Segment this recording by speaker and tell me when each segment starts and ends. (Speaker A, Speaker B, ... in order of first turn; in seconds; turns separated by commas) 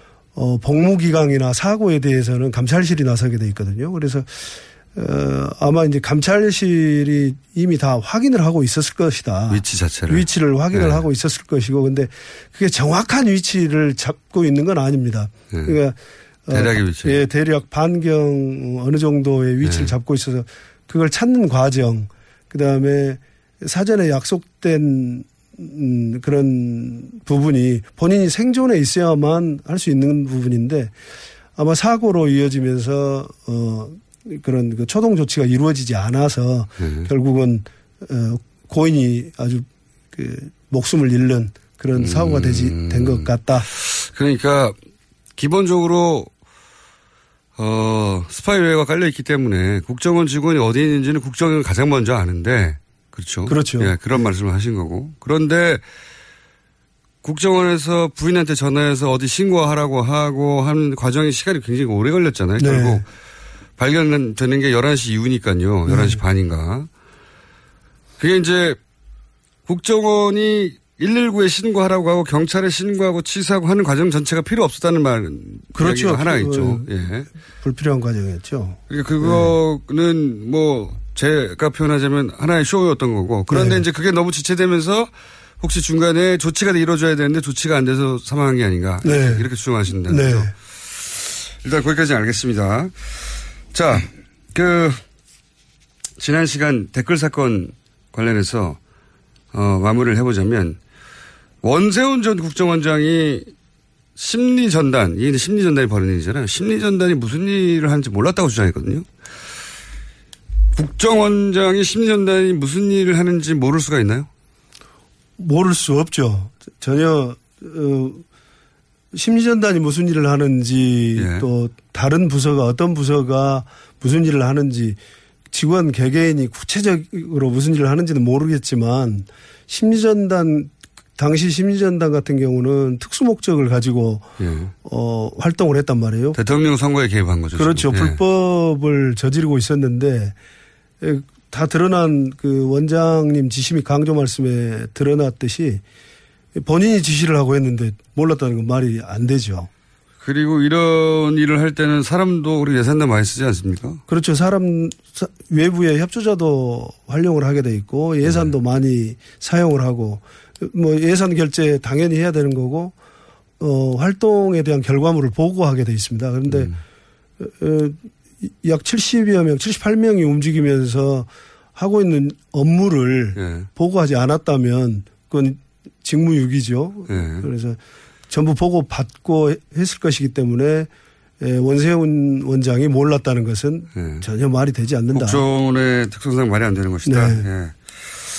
Speaker A: 0.3-16.0, Speaker B: 9.5-11.0, Speaker B: 15.5-15.8, Speaker A: 16.5-30.9, Speaker B: 16.5-17.2, Speaker B: 19.6-19.9, Speaker A: 31.6-43.6, Speaker B: 36.8-37.1, Speaker B: 41.9-44.7, Speaker B: 45.4-46.3, Speaker B: 47.6-55.8, Speaker A: 53.5-54.0, Speaker B: 57.2-63.0, Speaker A: 62.6-63.0, Speaker B: 63.8-66.9, Speaker A: 65.9-66.2, Speaker B: 68.2-68.8, Speaker B: 69.7-77.3, Speaker A: 75.7-76.9, Speaker A: 77.5-79.5, Speaker B: 78.9-93.1, Speaker A: 83.5-83.8, Speaker A: 89.0-89.5, Speaker A: 90.0-90.5, Speaker B: 93.7-95.0, Speaker B: 96.2-98.8, Speaker B: 99.5-100.8, Speaker B: 101.6-103.5, Speaker B: 104.2-109.0, Speaker B: 110.7-114.3, Speaker A: 115.4-118.2, Speaker A: 119.1-125.0, Speaker B: 121.2-121.5, Speaker A: 125.5-134.3, Speaker B: 134.4-134.7, Speaker A: 134.8-136.4, Speaker B: 136.3-138.2, Speaker A: 137.5-140.3, Speaker A: 141.0-145.8, Speaker A: 146.6-149.7, Speaker B: 150.2-154.0, Speaker A: 154.1-162.9, Speaker B: 158.2-158.5, Speaker A: 163.6-166.7, Speaker B: 166.5-166.7, Speaker A: 167.4-168.1, Speaker A: 168.6-177.8, Speaker B: 173.3-173.7, Speaker B: 177.1-177.5, Speaker A: 178.3-180.9, Speaker A: 181.4-185.4, Speaker B: 183.9-184.2, Speaker B: 185.1-187.8, Speaker A: 187.0-187.4